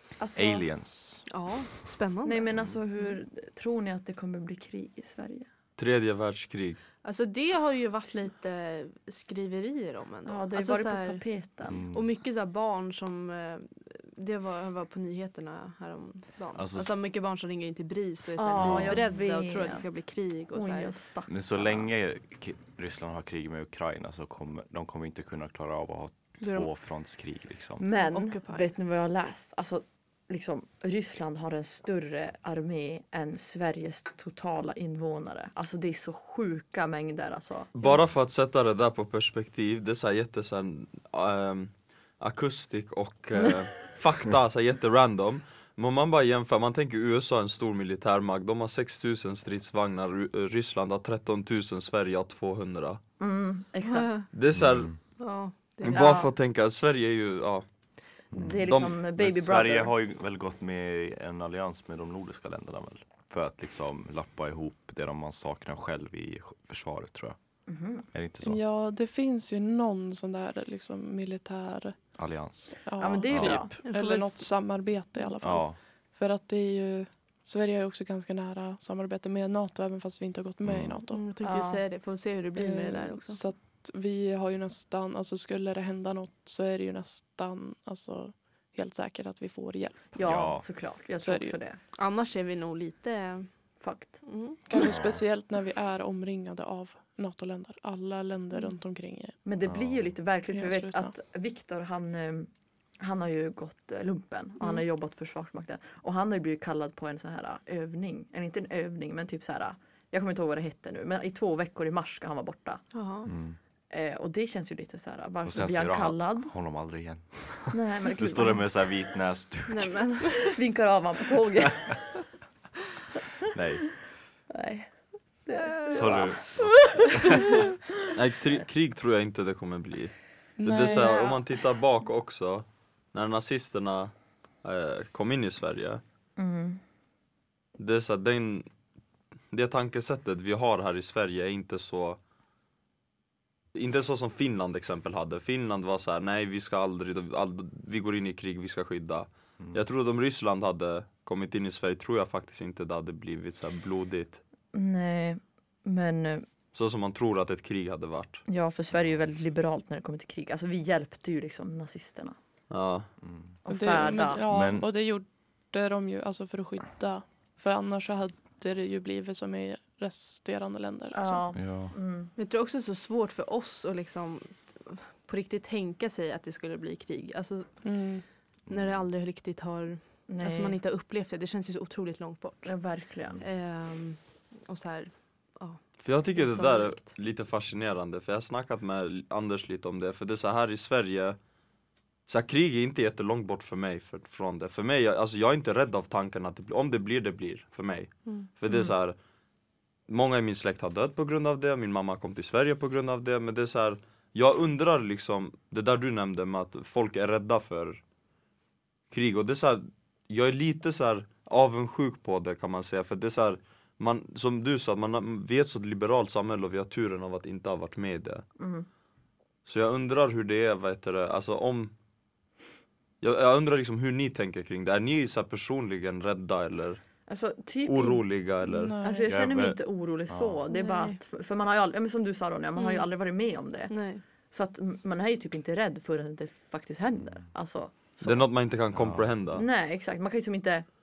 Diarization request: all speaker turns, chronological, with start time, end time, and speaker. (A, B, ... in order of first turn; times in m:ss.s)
0:00.2-0:00.7 A
0:00.4-0:01.3 B
0:01.3-0:03.1 C
0:02.2-0:05.5 A
0:05.8-0:06.8 D
0:07.0-0:11.2 C
0:10.3-0:11.8 A
0:11.7-0:12.1 B
0:11.9-0:21.0 C
0:16.5-0:16.9 B
0:18.4-0:19.9 A
0:18.6-0:19.0 B
0:20.5-0:21.9 A
0:21.3-0:27.8 B
0:26.4-0:26.7 C
0:27.8-0:37.9 A
0:28.0-0:28.7 C
0:37.8-0:53.0 D
0:53.2-0:54.1 A
0:53.8-0:54.3 C
0:54.3-0:54.9 D
0:54.5-0:55.0 B
0:55.2-0:56.1 C
0:55.8-0:57.6 D
0:55.8-0:56.3 A
0:58.3-1:07.4 B
0:58.3-0:59.9 A
0:58.4-0:59.0 D
1:07.7-1:08.1 A
1:08.1-1:08.6 B
1:08.4-1:12.0 E
1:12.2-1:12.8 B
1:12.8-1:21.2 E
1:13.0-1:13.8 A
1:13.3-1:13.6 B
1:13.8-1:14.5 C
1:15.4-1:15.8 B
1:20.6-1:21.0 B
1:21.1-1:23.4 C
1:21.4-1:21.8 A
1:22.6-1:30.2 E
1:30.2-1:31.8 A
1:30.2-1:30.6 B
1:31.2-1:31.6 E
1:32.0-1:33.5 C
1:33.8-1:34.2 A
1:34.2-1:34.8 C
1:34.7-1:39.4 E
1:34.8-1:35.2 B
1:39.4-1:52.8 A
1:39.6-1:40.1 B
1:40.5-1:41.1 E
1:52.9-1:53.3 C
1:53.3-1:53.6 B
1:53.9-1:56.5 A
1:55.4-2:00.0 B
1:57.7-1:58.7 A
1:59.7-2:00.6 C
2:00.5-2:02.0 A
2:03.5-2:04.0 B
2:04.5-2:04.9 A
2:05.4-2:07.7 A
2:05.6-2:06.1 C
2:05.9-2:07.5 B
2:08.1-2:16.0 D
2:10.6-2:11.2 E
2:10.8-2:11.4 A
2:16.4-2:16.8 A
2:17.8-2:18.7 D
2:19.5-2:22.2 D
2:23.7-2:34.4 D
2:34.7-2:36.5 A
2:36.7-2:38.4 D
2:38.5-2:42.4 A
2:42.7-2:43.1 D
2:43.2-2:43.6 B
2:43.6-2:44.4 A
2:43.7-2:51.4 E
2:44.5-2:44.9 B
2:51.1-2:52.3 A
2:51.5-2:51.9 B
2:52.4-2:58.0 C
2:57.8-2:58.2 E
2:58.7-2:59.0 B
2:58.7-3:02.7 C
3:00.3-3:00.8 A
3:02.6-3:03.4 A
3:03.4-3:07.1 C
3:06.0-3:11.4 D
3:12.3-3:19.2 D
3:20.1-3:28.0 D
3:29.1-3:38.4 D
3:38.6-3:38.9 A
3:39.6-3:41.9 D
3:43.2-3:47.0 D
3:47.3-3:54.0 A
3:47.8-3:49.0 D
3:48.7-3:49.3 E
3:49.3-3:49.8 B
3:50.3-3:50.6 B
3:50.7-3:51.2 C
3:52.8-3:53.1 C
3:53.9-3:54.2 C
3:54.5-3:58.5 A
3:58.2-3:59.7 D
3:58.9-3:59.3 B
3:59.5-4:00.9 A